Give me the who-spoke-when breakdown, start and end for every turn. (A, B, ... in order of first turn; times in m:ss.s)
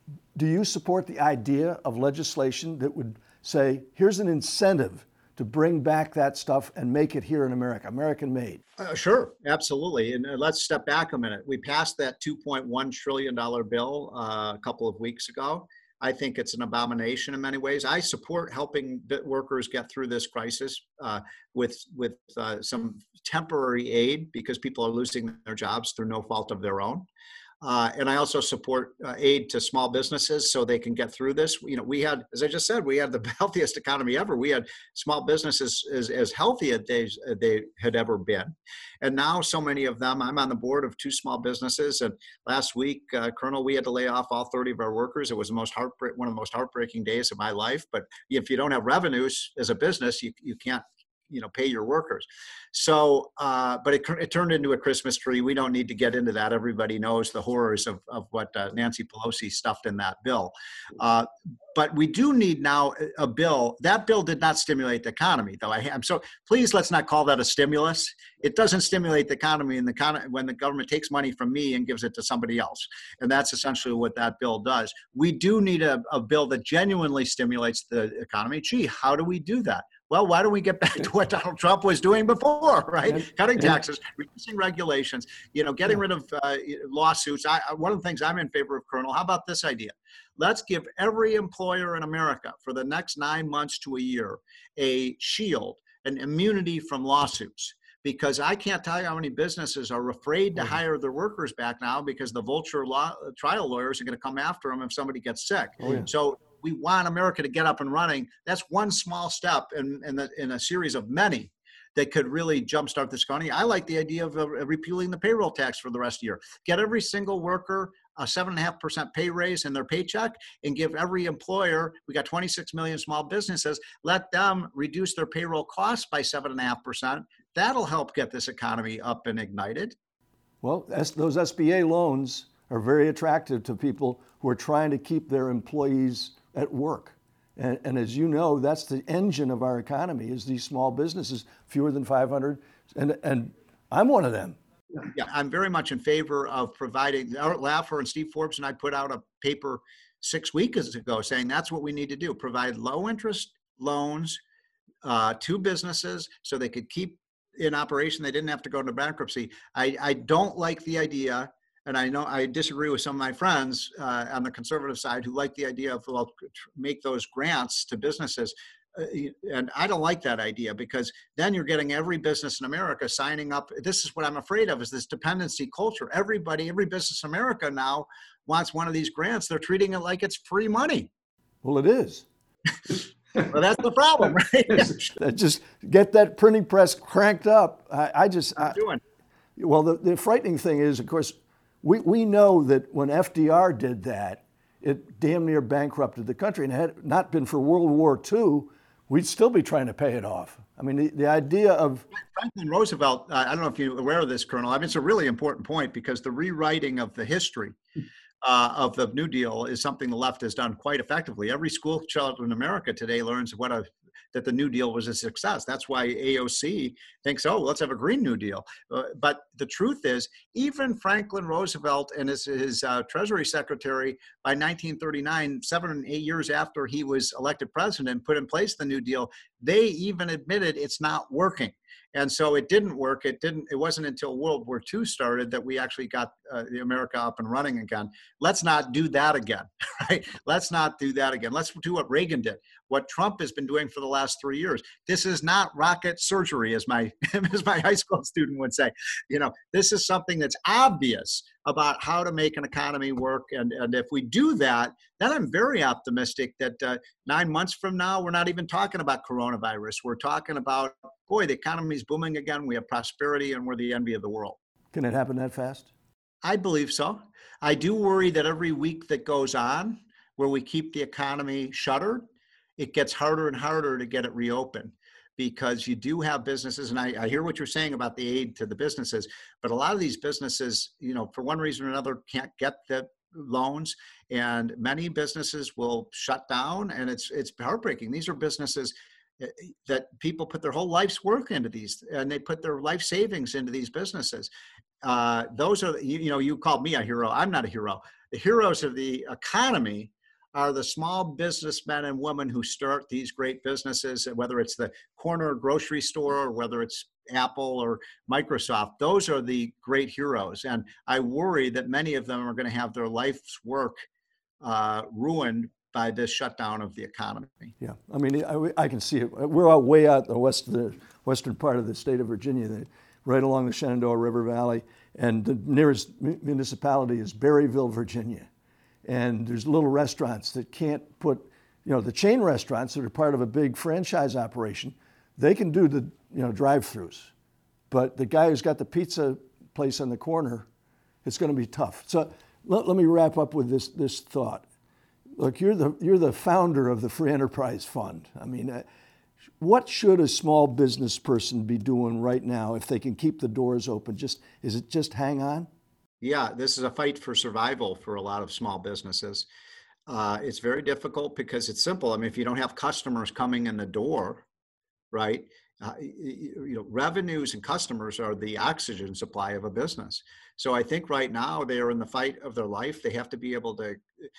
0:00.3-0:08.6 A
0:08.8-0:27.1 B
0:27.6-2:09.9 B
1:45.8-1:46.1 A
2:10.6-2:24.6 A
2:25.0-2:34.4 B
2:35.0-3:01.1 B
3:01.6-3:02.2 A
3:02.9-3:05.1 B
3:05.2-3:08.8 A
3:08.6-3:09.0 B
3:09.6-3:22.0 A
3:22.2-3:27.8 B
3:28.4-4:24.6 B
4:24.9-4:25.9 A
4:26.4-4:32.2 B
4:32.8-4:54.5 B
4:55.0-5:14.0 B
5:14.6-5:17.7 B
5:17.8-5:28.5 A
5:29.0-5:37.3 A
5:37.9-5:40.7 A
5:41.2-5:44.6 A
5:45.4-5:48.8 A
5:49.6-5:55.7 A
5:56.2-5:59.5 B
6:00.1-6:04.4 B
6:05.1-6:14.0 B